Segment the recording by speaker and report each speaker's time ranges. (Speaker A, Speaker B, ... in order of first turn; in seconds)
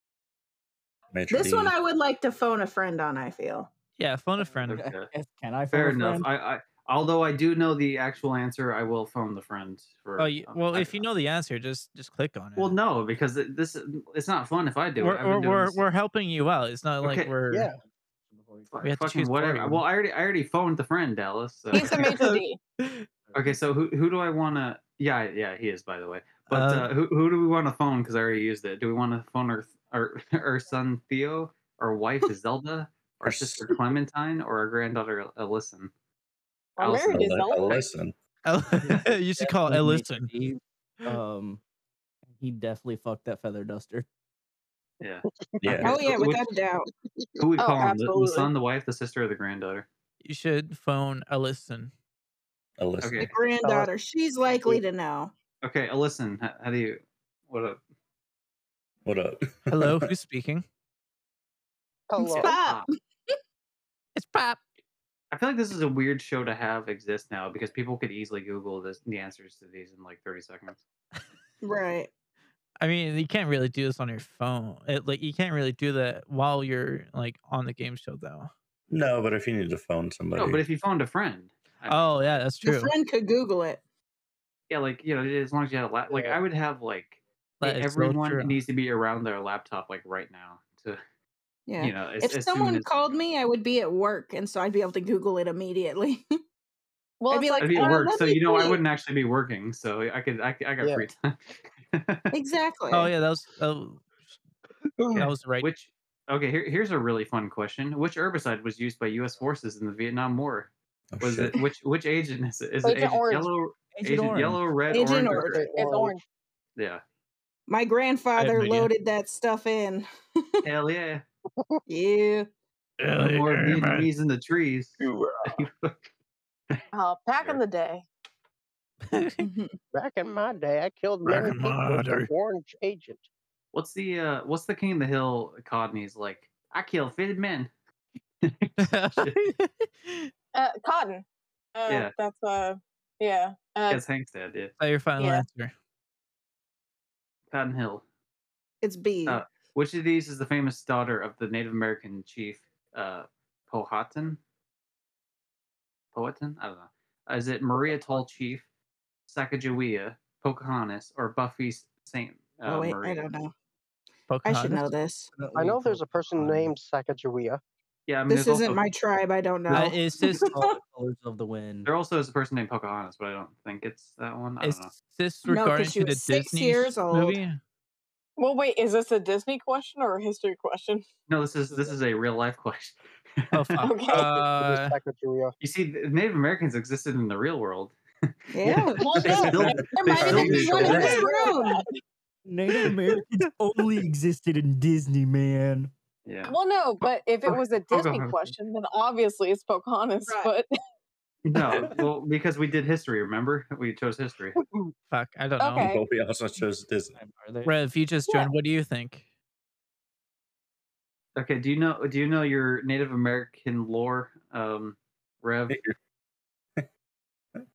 Speaker A: 1.1-1.7, 33.2-33.8, 37.1-38.1, 45.6-46.0, 52.8-53.3, 59.0-60.1, 78.9-80.6, 111.1-111.5, 205.8-207.2, 215.7-215.9
Speaker B: 1.3-3.7, 45.8-46.9, 53.2-55.3, 62.2-62.9, 71.6-72.1, 82.6-83.8, 91.7-96.2, 97.3-98.7, 102.3-103.1, 114.9-115.7, 117.7-120.6, 121.9-122.5, 129.4-129.8, 148.8-149.4, 162.7-163.5, 164.4-165.3, 168.3-170.7, 175.5-177.4, 188.5-191.8, 200.3-200.5
Speaker C: 4.0-4.8, 10.2-12.8, 15.0-17.7, 18.8-19.8, 21.8-23.1, 26.5-26.9, 38.5-40.3, 50.2-51.9, 59.7-60.6, 64.2-64.6, 72.8-78.5, 81.9-82.9, 87.6-88.6, 102.9-104.1, 105.1-105.7, 118.4-118.9, 123.0-124.1, 129.1-129.4, 131.2-132.3, 138.8-140.3, 144.8-145.7, 164.3-164.9, 169.7-170.5, 174.6-177.6, 183.5-185.0, 205.1-205.9, 207.7-209.2
Speaker D: 4.4-6.3, 18.3-18.8, 23.2-23.6, 38.8-41.6, 42.3-44.1, 113.9-114.7, 165.3-166.8, 170.4-171.9, 181.7-182.0, 189.3-189.7, 190.3-191.2, 192.5-195.9, 201.7-202.1, 207.1-207.8
Speaker E: 4.7-5.1, 5.7-11.1, 12.6-15.8, 17.0-17.3, 18.7-22.2, 23.3-35.9, 36.8-37.8, 45.0-46.5, 47.4-49.9, 53.0-53.3, 55.6-57.8, 62.4-62.9, 65.3-70.8, 80.4-82.4, 84.7-91.0, 91.8-92.9, 97.6-102.3, 105.1-115.7, 116.8-117.0, 120.6-121.2, 123.2-126.0, 133.7-137.7, 138.4-139.4, 141.9-142.1, 143.9-144.7, 147.5-148.0, 149.3-154.4, 156.1-158.7, 159.3-163.3, 168.1-168.8, 171.8-174.9, 181.3-183.8, 185.6-188.0, 188.6-191.2, 196.3-196.6, 197.5-198.6, 201.4-204.6, 211.4-215.8
Speaker F: 17.5-17.8, 45.3-46.0, 53.6-53.9, 62.1-62.6, 86.1-86.4, 105.0-105.3, 115.3-116.2, 129.9-133.2, 165.6-167.6, 184.1-185.5, 204.6-204.9
Speaker G: 21.7-22.6, 36.8-37.9, 47.6-48.5, 97.2-98.8, 112.8-113.5, 115.7-116.2, 126.9-128.1, 140.5-144.0, 145.2-145.5, 178.4-181.1, 183.8-184.3, 189.0-191.9, 196.5-200.7, 205.6-206.0